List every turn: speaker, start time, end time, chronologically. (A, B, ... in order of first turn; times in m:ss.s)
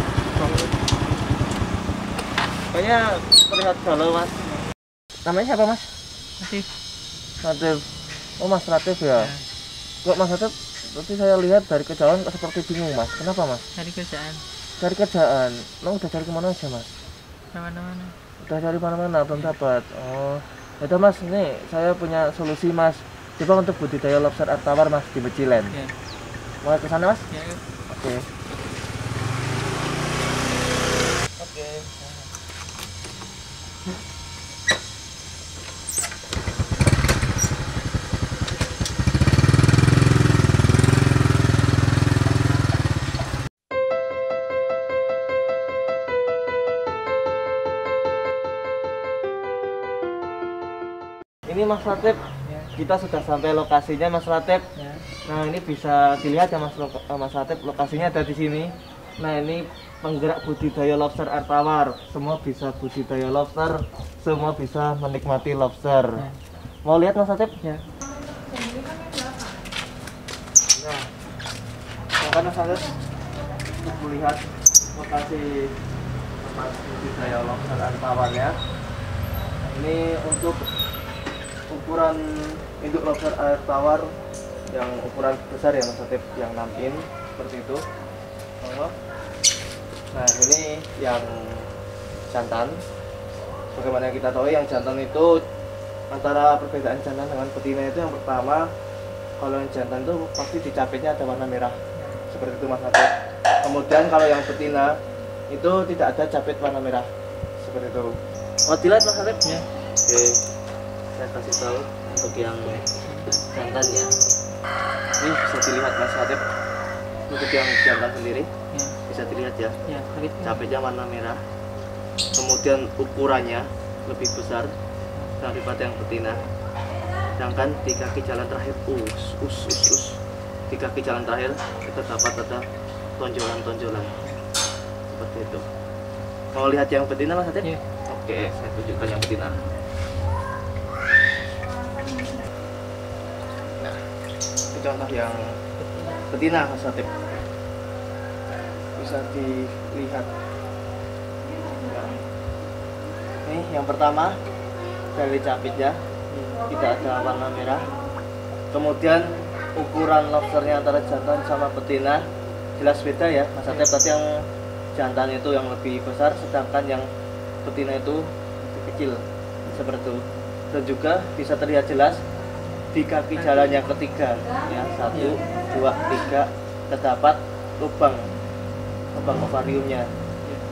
0:00.4-0:00.7 A
0:02.7-0:04.5 A
0:05.2-0:05.9 A
0:06.4-0:06.7 B
0:07.4-0:09.3 A
0:09.2-0:09.4 B
0:10.0-0:13.6 A
0:13.7-0:14.4 B
0:14.8-0:16.9 A
0:17.5-0:18.2 B
0:18.4-0:25.8 A
0:26.6-0:27.2 A
0:27.3-0:27.6 B
0:27.9-0:28.2 A
0:31.4-0:32.2 A
0:51.5-0:54.7 A
0:52.4-0:52.7 B
0:54.8-0:55.0 B
0:55.2-1:06.2 A
1:06.8-1:07.6 A
1:10.8-1:11.1 A
1:12.2-1:12.9 A
1:13.8-1:15.8 A
1:16.4-1:18.6 A
1:19.6-1:20.6 A
1:21.7-1:24.1 A
1:24.7-1:27.8 A
1:28.6-1:28.9 A
1:30.1-1:31.7 A
1:32.3-1:32.8 A
1:33.7-1:35.4 A
1:36.1-1:38.6 A
1:39.4-1:44.9 A
1:45.5-1:47.1 A
1:47.6-1:49.4 A
1:50.0-1:50.4 A
1:51.1-1:52.9 A
1:52.9-1:53.3 B
1:53.5-1:54.1 A
1:55.2-1:56.4 A
1:57.3-1:58.5 A
1:59.0-1:59.8 A
1:59.8-2:00.6 B
2:00.4-2:01.4 A
2:02.3-2:04.7 A
2:05.4-2:06.4 A
2:07.4-2:12.6 A
2:13.2-2:14.3 A
2:15.1-2:15.6 A
2:16.5-2:19.6 A
2:24.7-2:27.2 A
2:29.0-2:30.3 A
2:31.8-2:32.2 A
2:33.4-2:34.4 A
2:35.1-2:36.0 A
2:36.3-2:36.6 B
2:36.6-2:37.9 A
2:38.7-2:42.2 A
2:42.8-2:44.4 A
2:44.9-2:47.1 A
2:47.6-2:52.2 A
2:52.9-2:58.3 A
2:55.1-2:55.4 B
2:59.1-3:00.1 A